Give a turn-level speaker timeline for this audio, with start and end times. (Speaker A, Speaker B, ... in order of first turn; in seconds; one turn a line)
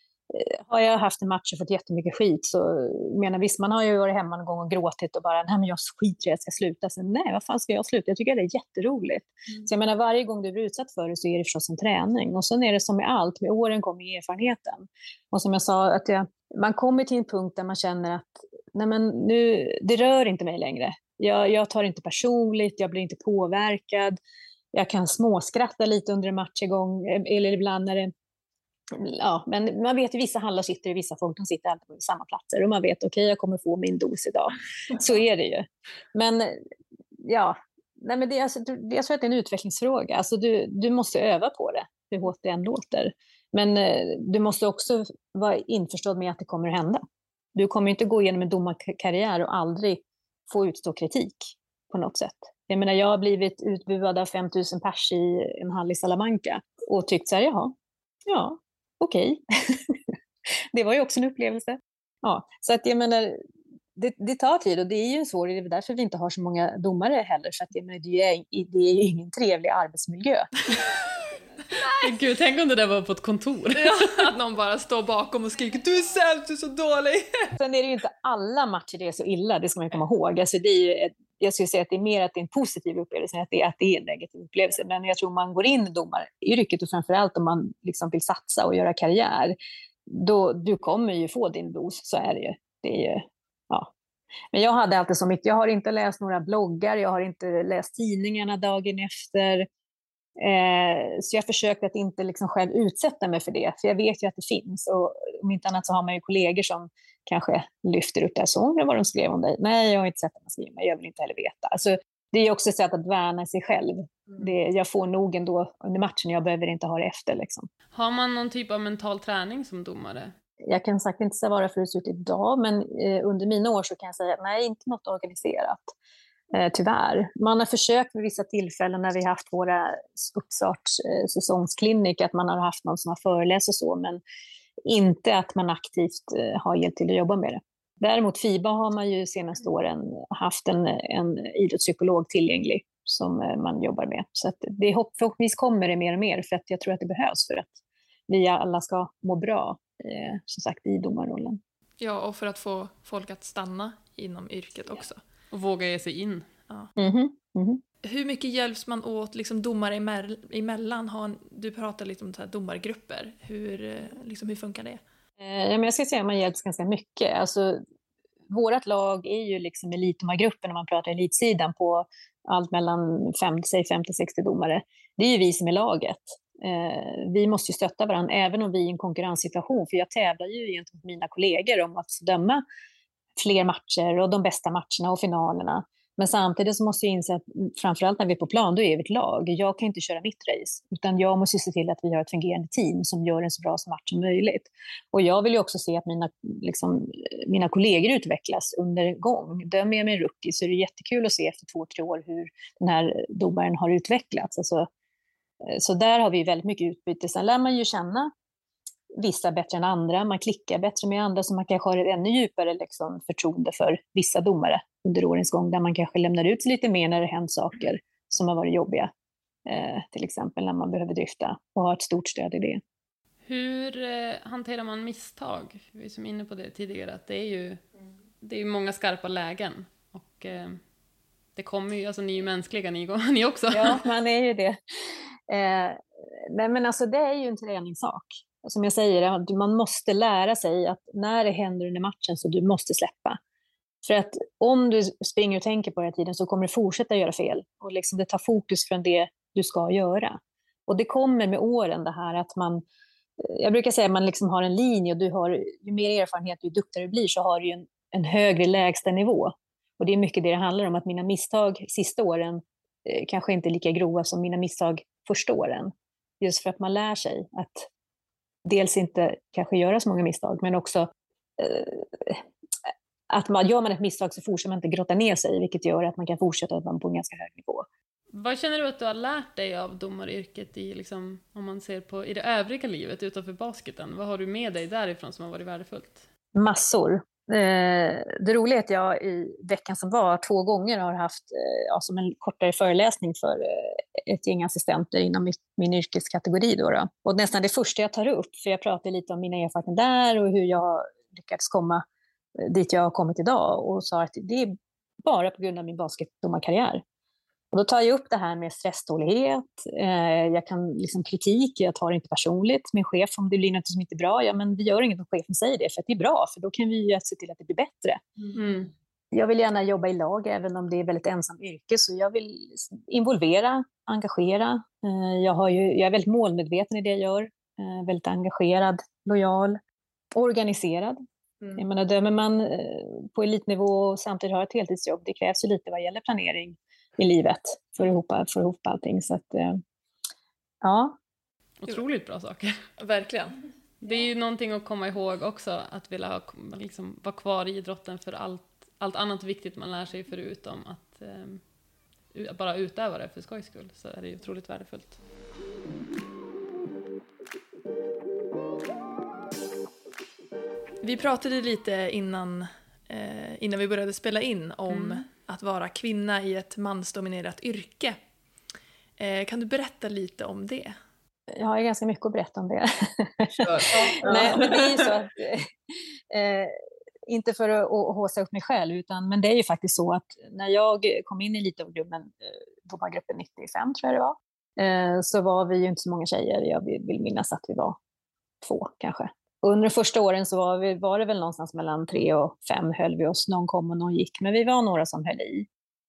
Speaker A: 0.3-24.2
Speaker A: 24.7-28.1
Speaker A: 28.9-36.6
Speaker A: 37.2-47.0
Speaker A: 47.5-57.7
Speaker A: 58.3-60.1
Speaker A: 60.7-63.4
Speaker A: 64.0-70.5
Speaker B: 71.9-74.3
Speaker C: 73.8-77.5
Speaker A: 77.6-89.5
Speaker A: 90.1-93.9
Speaker A: 94.5-99.7
Speaker A: 100.4-117.7
Speaker B: 117.9-120.3
Speaker A: 120.7-125.9
Speaker A: 126.5-134.2
Speaker A: 134.9-147.8
Speaker A: 148.3-151.6
Speaker C: 152.0-155.2
Speaker B: 155.5-156.5
Speaker A: 157.0-157.8
Speaker C: 158.0-165.0
Speaker A: 165.4-167.8
Speaker A: 168.5-182.6
Speaker A: 183.4-204.9
Speaker A: 205.6-208.3
Speaker A: 209.2-219.1
Speaker A: 219.7-222.8
Speaker B: 223.4-227.8
Speaker B: 228.4-230.8
Speaker B: 231.6-234.1
Speaker A: 233.7-234.8
Speaker A: 235.5-243.4
Speaker A: 244.0-252.8
Speaker A: 253.4-267.9
Speaker A: 268.7-271.1
Speaker A: 271.6-272.4
Speaker A: 273.3-277.9
Speaker B: 278.3-286.2
Speaker A: 286.5-302.0
Speaker A: 302.6-304.7
Speaker A: 305.2-307.0
Speaker A: 307.7-318.2
Speaker B: 318.5-318.9
Speaker A: 319.3-329.8
Speaker A: 330.3-331.2
Speaker A: 331.8-339.8
Speaker A: 340.8-341.2
Speaker B: 341.8-342.8
Speaker C: 343.0-343.6
Speaker B: 344.0-351.6
Speaker B: 352.3-355.2
Speaker C: 361.0-368.2
Speaker B: 364.9-365.2
Speaker C: 369.2-370.9
Speaker A: 371.5-376.8
Speaker B: 373.6-375.0
Speaker A: 377.3-388.0
Speaker A: 388.6-395.7